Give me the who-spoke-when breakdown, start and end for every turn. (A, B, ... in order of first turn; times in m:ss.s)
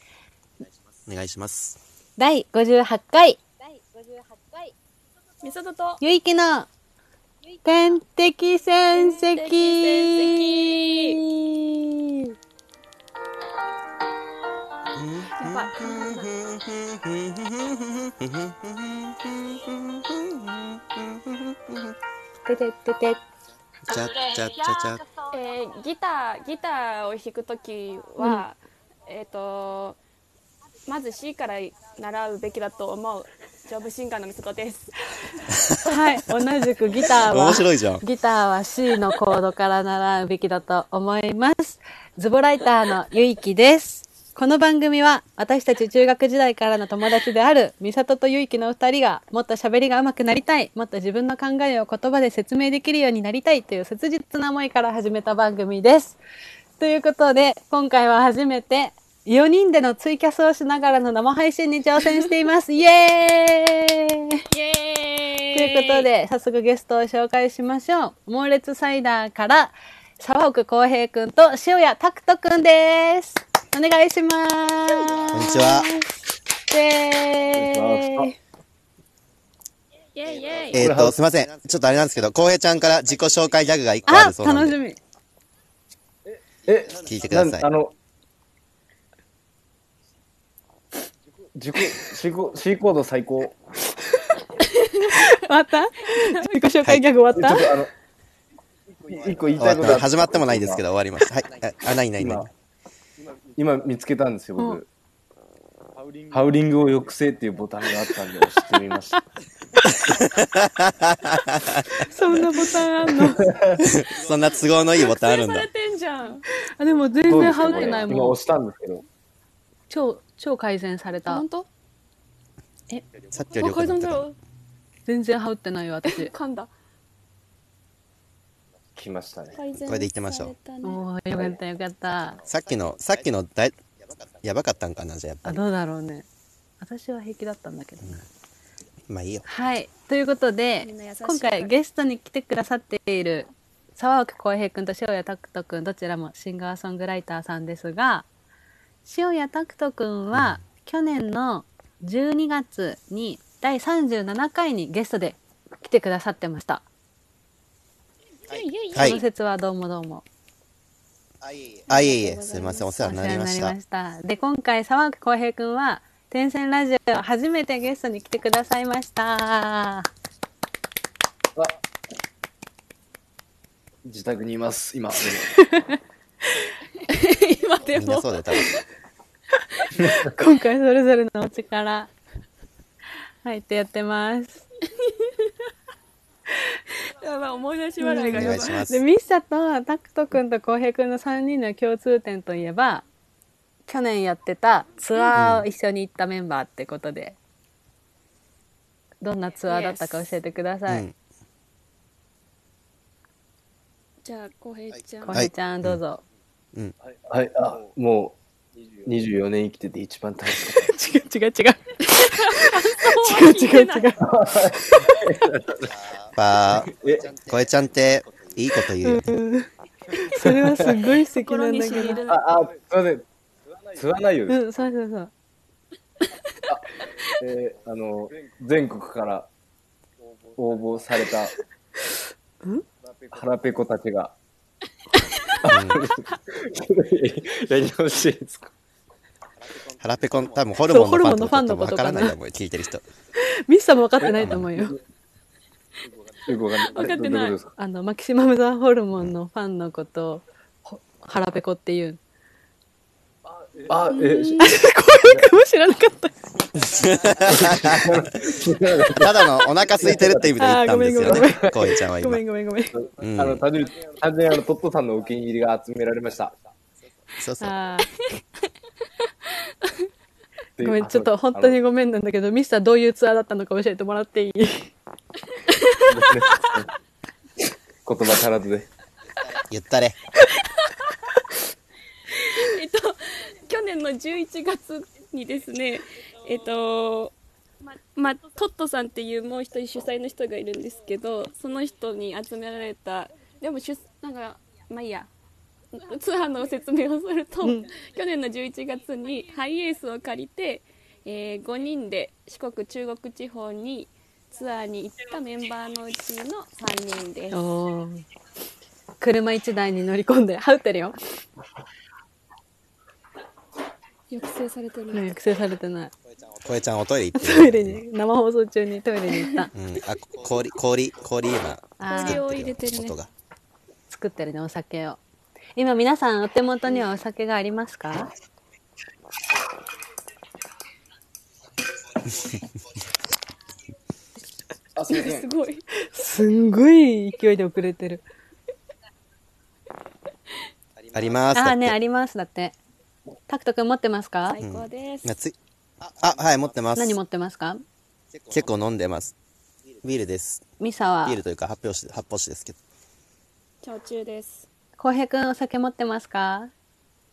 0:01.1-0:01.8 A
0:02.2-0:03.4 B
0:05.4-0:06.0 C
0:06.0-0:06.7 B
0:07.6-0:12.3 B
0:08.9-0:11.2 C
0:14.9-0:21.9 A
0:15.3-0:16.3 C
0:22.4-0:23.2 B
0:23.9-0:25.0 A
0:25.2-0:30.0 C
0:28.2-0:28.4 B
0:30.9-0:34.9 C
0:35.5-0:36.0 A
0:35.8-0:56.2 B
0:37.2-0:38.0 A
0:56.8-1:04.4 B
1:04.5-1:06.0 C
1:05.5-1:16.1 B
1:15.3-1:15.9 A
1:16.7-1:18.4 B
1:17.6-1:18.3 D
1:20.1-1:20.8 C
1:20.7-1:21.2 D
1:20.7-1:24.8 A
1:24.1-1:25.0 B
1:26.6-1:27.9 D
1:27.0-1:27.7 A
1:31.5-1:33.6 D
1:35.1-1:37.8 B
1:37.3-1:37.9 D
1:39.0-1:40.8 D
1:39.6-1:42.5 A
1:42.2-1:42.5 D
1:43.6-1:44.9 D
1:46.3-1:49.2 D
1:50.0-1:52.4 A
1:52.1-1:53.5 B
1:53.2-1:53.8 D
1:53.8-1:55.7 A
1:55.0-1:56.4 C
1:56.6-1:58.4 B
1:57.3-1:59.0 D
1:57.6-1:58.0 C
1:59.9-2:01.4 B
2:01.2-2:01.7 C
2:03.3-2:04.2 A
2:03.4-2:04.4 C
2:05.1-2:06.3 B
2:06.0-2:06.7 C
2:09.0-2:09.6 D
2:09.5-2:11.0 C
2:09.7-2:10.5 A
2:10.8-2:12.4 B
2:12.5-2:13.8 A
2:14.4-2:15.6 A
2:15.4-2:16.3 B
2:16.8-2:18.2 B
2:19.1-2:19.4 A
2:19.5-2:28.3 B
2:20.8-2:21.7 C
2:29.0-2:36.8 B
2:30.3-2:30.6 A
2:38.4-2:39.2 C
2:38.9-2:39.2 A
2:39.0-2:40.2 B
2:41.9-2:43.8 A
2:41.9-2:43.1 C
2:43.0-2:50.1 B
2:54.0-2:55.5 D
2:55.6-2:56.0 B
2:57.1-2:58.8 C
2:57.9-2:58.7 A
3:00.0-3:02.1 B
3:03.4-3:04.6 B
3:05.0-3:05.3 C
3:07.0-3:08.8 C
3:08.0-3:13.0 B
3:08.3-3:09.0 A
3:13.9-3:17.4 B
3:15.3-3:15.6 A
3:19.2-3:21.0 B
3:19.6-3:20.3 C
3:20.9-3:21.1 A
3:24.2-3:25.5 C
3:25.2-3:26.2 B
3:25.3-3:26.0 A
3:27.3-3:28.4 D
3:29.0-3:30.9 D
3:30.6-3:34.2 B
3:32.1-3:34.2 C
3:34.2-3:36.0 D
3:36.3-3:39.3 A
3:36.8-3:37.4 D
3:39.0-3:39.7 B
3:40.2-3:42.2 B
3:40.4-3:40.8 D
3:40.8-3:42.4 C
3:42.2-3:43.2 D
3:43.9-3:44.6 D
3:44.5-3:45.3 B
3:46.7-3:49.5 D
3:50.6-3:51.6 D
3:53.3-3:54.4 D
3:55.6-3:58.7 D
3:55.7-3:56.0 A
4:00.0-4:03.0 A
4:00.9-4:02.4 B
4:03.4-4:05.0 B
4:04.2-4:04.9 D
4:04.4-4:04.7 A
4:06.5-4:07.7 D
4:06.8-4:07.6 C
4:07.8-4:12.2 B
4:13.8-4:15.4 D
4:14.1-4:14.7 C
4:14.6-4:16.3 B
4:17.0-4:18.2 A
4:17.4-4:19.4 D
4:19.1-4:22.4 A
4:20.0-4:20.5 D
4:20.6-4:23.0 B
4:21.2-4:21.5 D
4:23.0-4:26.5 D
4:23.2-4:23.6 A
4:27.4-4:27.7 A
4:27.6-4:28.1 B
4:29.7-4:29.9 C
4:30.8-4:31.8 D
4:30.8-4:34.9 B
4:35.7-4:36.2 C
4:36.1-4:36.9 D
4:38.0-4:38.9 D
4:39.7-4:40.2 A
4:42.3-4:47.3 C
4:48.1-4:55.3 C
4:55.9-5:07.6 C
4:57.6-4:57.9 B
5:07.5-5:08.2 B
5:09.2-5:11.1 B
5:14.3-5:15.3 C
5:15.1-5:16.1 B
5:16.6-5:18.0 A
5:17.4-5:19.7 B
5:19.4-5:19.6 C
5:19.7-5:23.3 A
5:22.0-5:22.4 B
5:22.1-5:23.1 C
5:24.1-5:25.2 B
5:25.8-5:28.3 B
5:35.0-5:35.5 D
5:35.1-5:35.8 C
5:36.0-5:38.2 B
5:41.1-5:42.0 A
5:41.5-5:42.8 B
5:43.5-5:44.6 B
5:44.4-5:45.3 C
5:44.6-5:47.2 A
5:47.0-5:47.8 B
5:48.5-5:49.3 A
5:50.0-5:50.6 A
5:50.8-5:51.4 B
5:51.2-5:52.8 A
5:53.8-5:54.7 C
5:55.0-5:56.7 B